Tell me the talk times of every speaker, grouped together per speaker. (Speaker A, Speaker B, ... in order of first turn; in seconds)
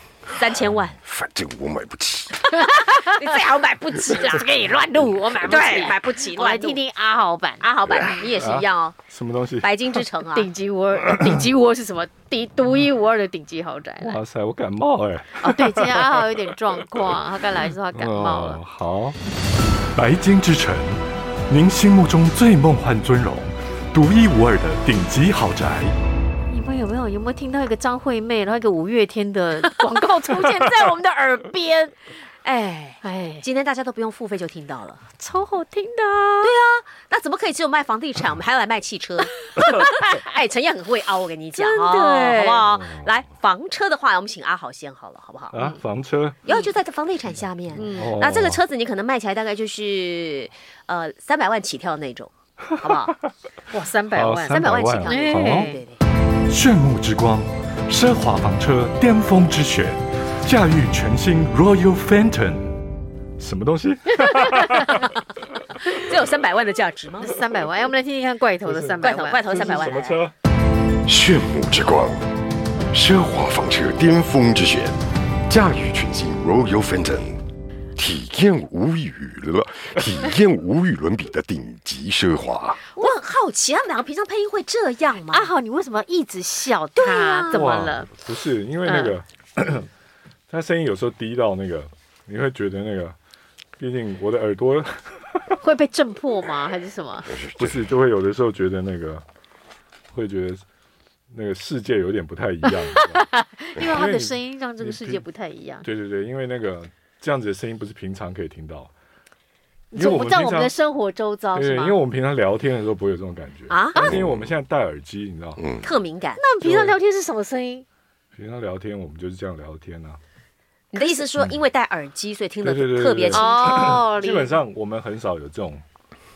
Speaker A: 0.3-1.0, 2.6-4.5, 5.4-6.8, 7.6-9.0, 9.6-10.5, 32.4-35.0, 36.4-45.5, 46.5-53.2, 54.5-56.0, 65.9-67.4, 69.0-70.3, 83.0-85.5, 87.0-87.6, 113.7-114.1, 115.8-116.4, 120.9-124.0
Speaker B: 1.0-2.5, 7.8-8.1, 71.0-72.3, 72.9-77.4, 78.0-82.8, 97.3-97.9, 103.8-104.0, 114.0-114.6, 115.6-115.9
Speaker C: 2.5-3.2, 4.1-7.7, 10.3-14.2, 15.4-18.6, 26.5-31.9, 33.0-33.4, 35.2-36.5, 39.6-40.2, 41.5-42.7, 47.8-48.2, 53.7-55.8, 67.2-69.9, 85.3-88.1, 88.8-89.1, 95.6-97.3, 102.7-105.8, 109.9-112.0, 116.4-117.8, 121.0-121.3, 123.3-124.6
Speaker D: 8.3-10.0, 14.0-17.1, 17.9-19.2, 19.9-25.9, 42.8-43.1, 45.5-46.5, 47.9-48.6, 52.8-53.1, 54.1-55.7, 56.5-62.8, 63.4-65.1, 68.6-70.3, 87.5-89.9, 90.5-93.2, 93.8-95.6, 97.6-99.2, 100.1-100.6, 101.3-103.3, 103.8-105.2, 105.8-108.9, 109.9-110.7, 111.5-115.6, 116.6-117.0, 118.3-120.2, 122.6-125.8